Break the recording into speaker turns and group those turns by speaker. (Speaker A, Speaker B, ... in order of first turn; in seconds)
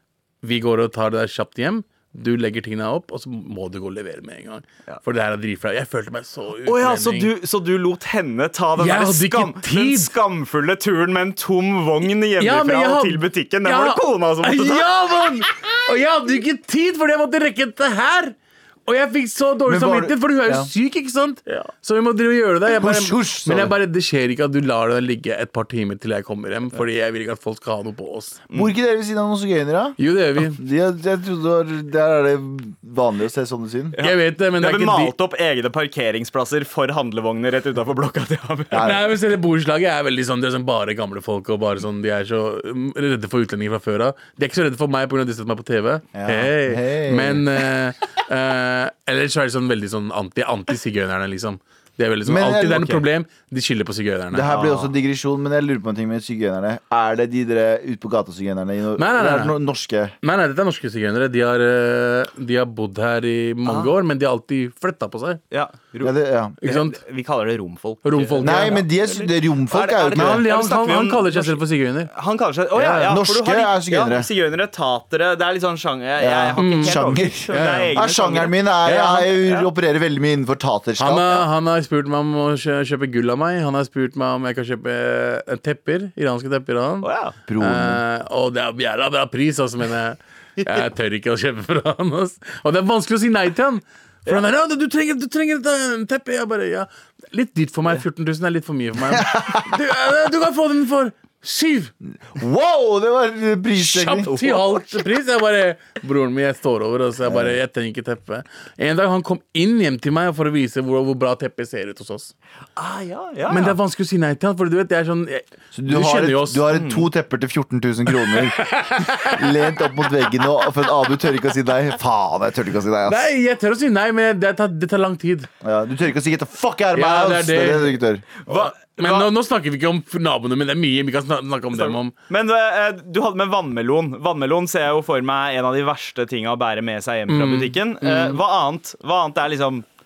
Speaker A: 0.4-7.3, 8.8-10.1, 12.4-28.4, 30.0-30.6, 34.0-35.1, 38.8-54.6, 59.0-59.6, 60.2-65.4, 66.6-67.0, 68.0-68.8, 70.1-72.1, 72.7-73.1, 76.6-78.0, 81.0-87.1, 87.6-101.9, 103.8-112.3, 113.5-116.6, 118.2-119.7, 123.0-125.5, 126.9-127.9, 128.5-132.1, 137.3-138.4
Speaker B: 6.7-14.9, 34.0-38.9, 54.5-54.9, 63.6-63.9, 65.5-79.7, 87.0-87.3, 112.8-113.8, 116.7-117.0, 128.5-129.3, 131.7-139.8
Speaker C: 19.6-20.7, 22.7-23.7, 28.5-34.0, 38.7-39.0, 46.1-47.4, 52.2-53.0, 54.3-60.1, 66.0-66.6, 68.4-70.5, 73.1-74.3, 76.2-81.4, 87.5-88.0, 99.1-99.6, 102.2-104.6, 107.2-107.5, 115.7-123.3, 125.6-128.3